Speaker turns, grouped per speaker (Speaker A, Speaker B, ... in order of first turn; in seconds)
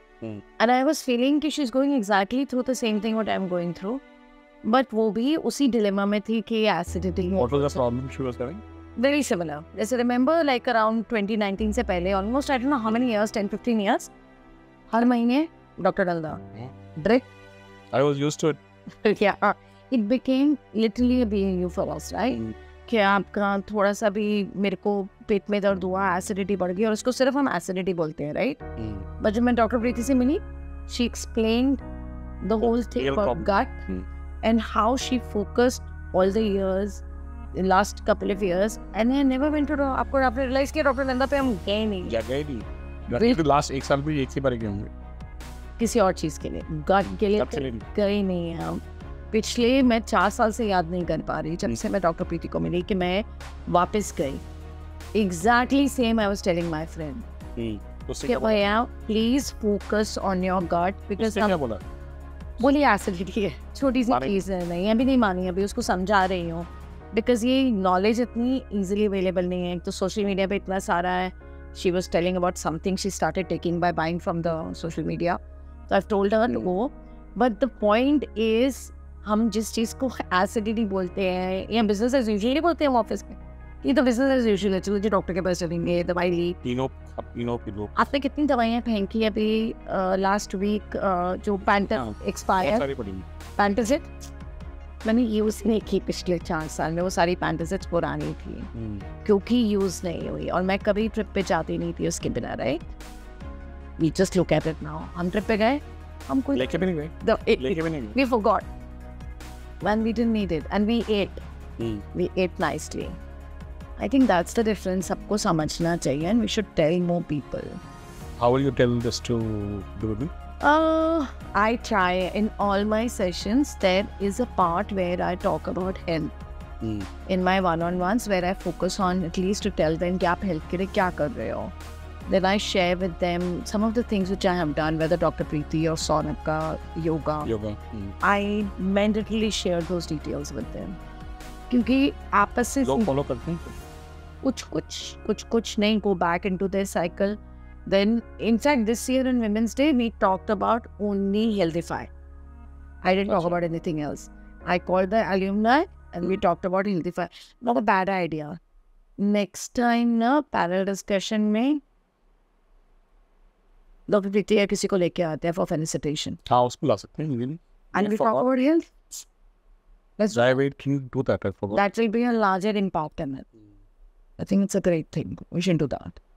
Speaker A: 0.6-4.0, 4.7-7.8, 9.0-14.1, 14.9-16.4, 17.0-17.3, 19.0-28.6, 29.2-31.8, 32.4-33.8, 34.4-37.0, 37.5-42.2, 43.1-43.4, 45.8-54.4, 55.1-57.3, 58.2-61.6, 62.6-86.6, 88.0-92.8, 93.6-94.1, 95.0-98.7, 99.2-103.0, 104.0-108.7, 109.8-111.4, 112.1-113.2, 114.0-117.8, 120.6-126.3, 127.3-131.8, 132.3-137.5, 138.2-141.0, 141.7-143.1, 144.4-152.1, 153.0-158.6, 159.2-161.8, 164.1-166.4, 167.9-169.2, 170.2-170.5, 171.7-173.5, 174.4-176.2
Speaker B: 7.4-8.6, 17.9-18.6, 28.8-29.1, 32.6-34.1, 42.1-44.9, 47.4-47.8, 57.6-58.6, 61.2-61.8, 64.1-64.4, 86.6-87.9, 91.9-93.3, 98.7-99.1, 106.5-108.2, 111.8-112.0, 118.4-120.3, 126.8-127.1, 137.4-138.2, 142.8-143.7, 153.3-153.6, 166.5-168.5, 170.3-171.8